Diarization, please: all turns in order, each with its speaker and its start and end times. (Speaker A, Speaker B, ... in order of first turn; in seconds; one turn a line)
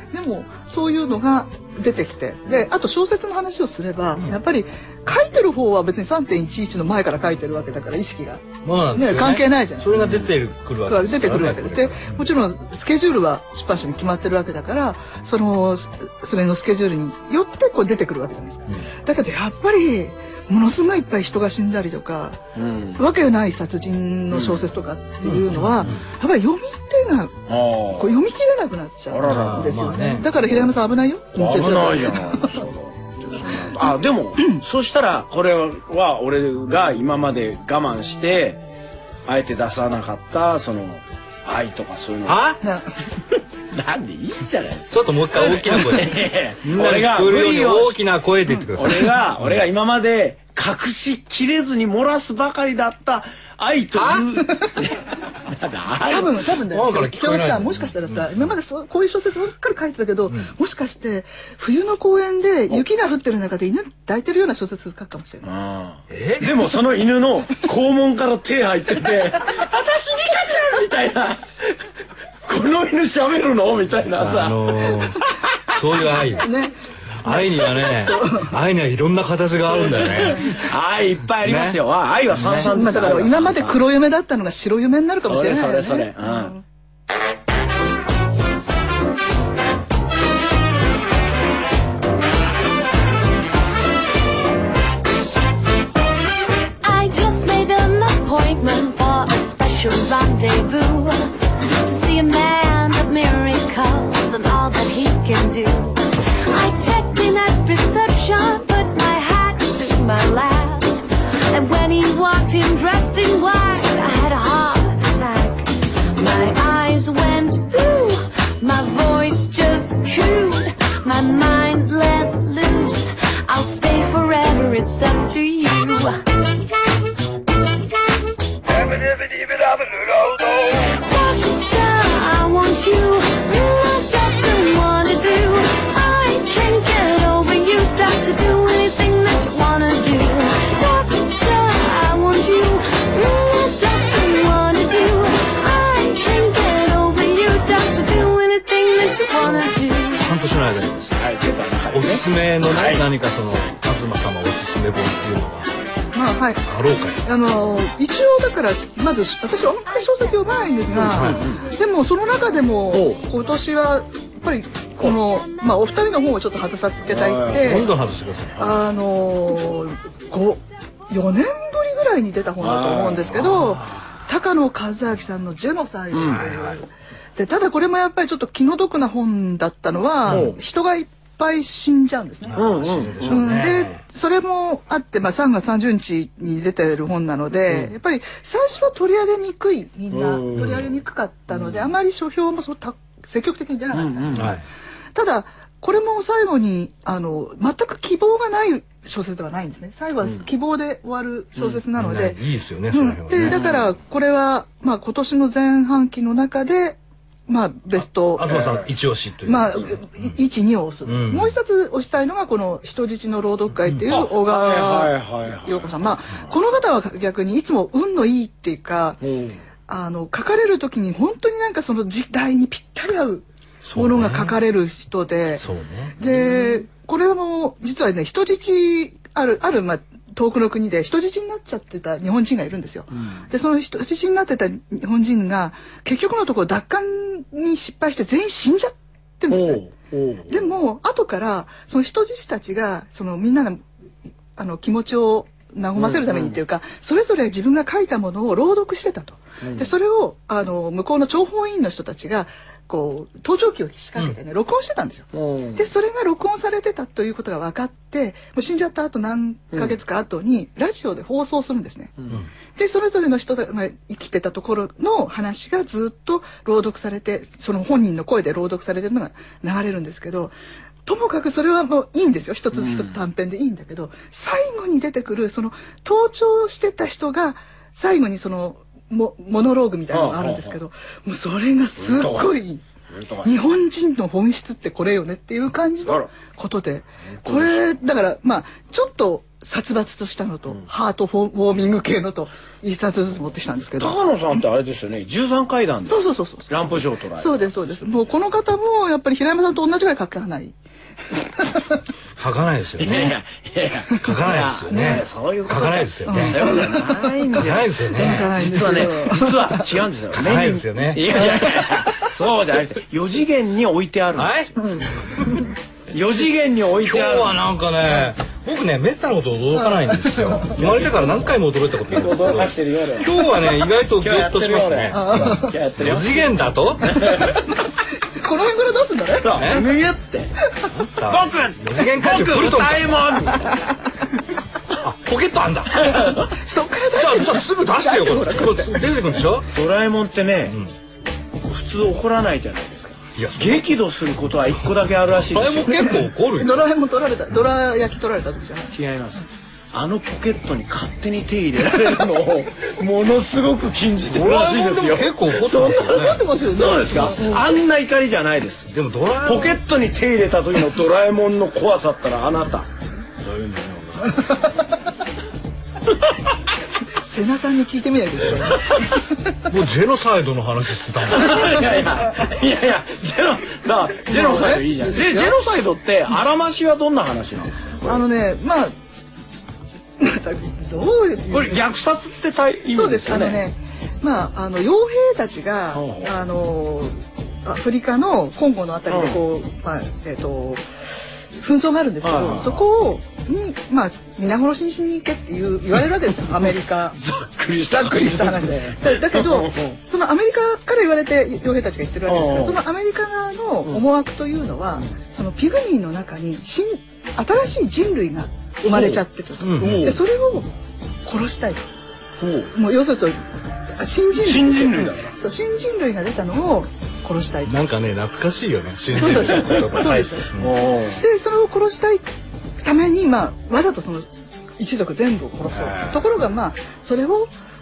Speaker A: 0.1-10.0
Speaker B: 8.6-12.2
Speaker C: 10.0-10.3
Speaker A: 10.9-22.4
Speaker C: 22.6-23.0
Speaker A: 23.0-32.7
Speaker C: 24.3-24.7
Speaker B: 25.2-26.1
Speaker C: 27.5-28.2
Speaker C: 29.1-29.7
Speaker B: 29.2-30.3
Speaker C: 31.4-38.6
Speaker C: 39.3-42.5
Speaker B: 42.3-42.6
Speaker A: 42.6-42.9
Speaker C: 43.7-48.0
Speaker B: 44.9-49.6
Speaker C: 48.8-56.5
Speaker B: 54.0-54.2
Speaker A: 56.0-65.5
Speaker B: 56.7-58.4
Speaker C: 65.4-71.8
Speaker B: 66.1-66.7
Speaker C: 72.5-75.8
Speaker B: 74.2-76.5
Speaker A: 76.3-78.5
Speaker B: 77.2-80.7
Speaker C: 79.7-83.8
Speaker B: 81.4-81.8
Speaker B: 82.3-83.0
Speaker A: 82.4-86.6
Speaker C: 85.2-86.6
Speaker D: 96.8-101.3
Speaker D: 101.8-126.2
Speaker D: 130.8-150.2
Speaker B: 150.2-151.2
Speaker C: 151.2-153.1
Speaker B: 151.9-155.7
Speaker A: 156.2-156.6
Speaker B: 156.7-157.2
Speaker A: 157.2-167.9
Speaker C: 161.0-161.7
Speaker B: 161.1-161.5
Speaker C: 162.9-163.2
Speaker C: 167.1-167.9
Speaker B: 167.5-168.8
Speaker A: 168.6-176.8
Speaker C: 172.6-173.8
Speaker C: 176.1-176.6
Speaker B: 176.4-176.7
Speaker A: 177.4-182.6
Speaker B: 180.3-180.5
Speaker C: 180.3-180.6
Speaker B: 182.5-184.0
Speaker C: 182.6-183.4
Speaker A: 183.3-194.6
Speaker C: 190.1-190.8
Speaker B: 190.6-190.8
Speaker C: 191.5-191.9
Speaker C: 193.9-194.6
Speaker B: 194.4-194.6
Speaker A: 195.2-202.4
Speaker B: 201.9-203.7
Speaker A: 202.9-208.6
Speaker C: 203.3-203.9
Speaker B: 208.3-210.3
Speaker C: 208.4-208.9
Speaker A: 209.4-219.2
Speaker B: 211.1-211.6
Speaker B: 213.9-214.2
Speaker C: 214.1-216.5
Speaker C: 219.2-219.6
Speaker A: 219.9-225.7
Speaker B: 223.8-224.6
Speaker B: 225.6-226.4
Speaker A: 226.2-239.9
Speaker C: 233.1-233.5
Speaker C: 239.5-240.7
Speaker A: 240.5-243.8
Speaker A: 244.6-262.1
Speaker C: 246.0-246.6
Speaker C: 249.6-249.9
Speaker C: 255.3-255.9
Speaker C: 259.7-260.0
Speaker A: 262.8-270.6
Speaker A: 271.1-282.8
Speaker C: 272.7-273.2
Speaker C: 280.1-280.8
Speaker C: 282.0-282.6
Speaker C: 283.1-283.5
Speaker A: 283.4-294.3
Speaker C: 286.0-286.3
Speaker C: 287.4-287.8
Speaker C: 294.0-298.3
Speaker A: 296.1-300.8
Speaker A: 301.6-301.9
Speaker B: 302.4-303.4
Speaker C: 303.0-314.7
Speaker B: 304.2-306.8
Speaker A: 304.9-305.2
Speaker A: 306.3-307.6
Speaker B: 307.5-308.6
Speaker A: 308.1-309.8
Speaker B: 310.3-311.5
Speaker B: 314.4-315.6
Speaker C: 316.1-317.6
Speaker B: 317.0-327.4
Speaker A: 320.2-320.7
Speaker C: 320.8-321.3
Speaker C: 322.1-323.6
Speaker C: 324.1-327.6
Speaker A: 325.1-325.8
Speaker A: 328.4-329.8
Speaker C: 329.4-330.5
Speaker B: 329.6-329.9
Speaker B: 330.9-333.4
Speaker C: 331.2-333.8
Speaker B: 335.0-336.5
Speaker A: 336.4-339.0
Speaker B: 337.1-339.7
Speaker C: 339.7-340.8
Speaker C: 341.6-346.2
Speaker B: 343.4-343.9
Speaker B: 345.5-346.9
Speaker A: 346.0-349.0
Speaker C: 348.9-358.9
Speaker B: 354.2-356.5
Speaker A: 355.8-357.8
Speaker B: 358.9-359.8
Speaker C: 359.4-364.6
Speaker A: 367.2-369.1
Speaker B: 369.7-372.1
Speaker C: 371.3-378.2
Speaker A: 374.3-375.6
Speaker A: 378.1-378.9
Speaker A: 380.2-381.8
Speaker C: 381.5-383.6
Speaker A: 382.9-390.9
Speaker C: 385.9-386.4
Speaker C: 389.1-389.4
Speaker A: 391.6-397.2
Speaker C: 392.2-392.9
Speaker C: 397.1-400.0
Speaker A: 397.9-410.7
Speaker C: 402.3-402.8
Speaker C: 408.9-409.2
Speaker B: 409.6-410.2
Speaker C: 409.8-410.2
Speaker A: 411.2-411.9
Speaker C: 412.4-412.7
Speaker A: 412.7-413.4
Speaker A: 414.0-417.8
Speaker C: 414.4-415.3
Speaker B: 417.6-420.8
Speaker A: 419.1-420.5
Speaker C: 419.3-421.2
Speaker A: 421.2-422.2
Speaker A: 422.8-427.5
Speaker C: 425.7-426.2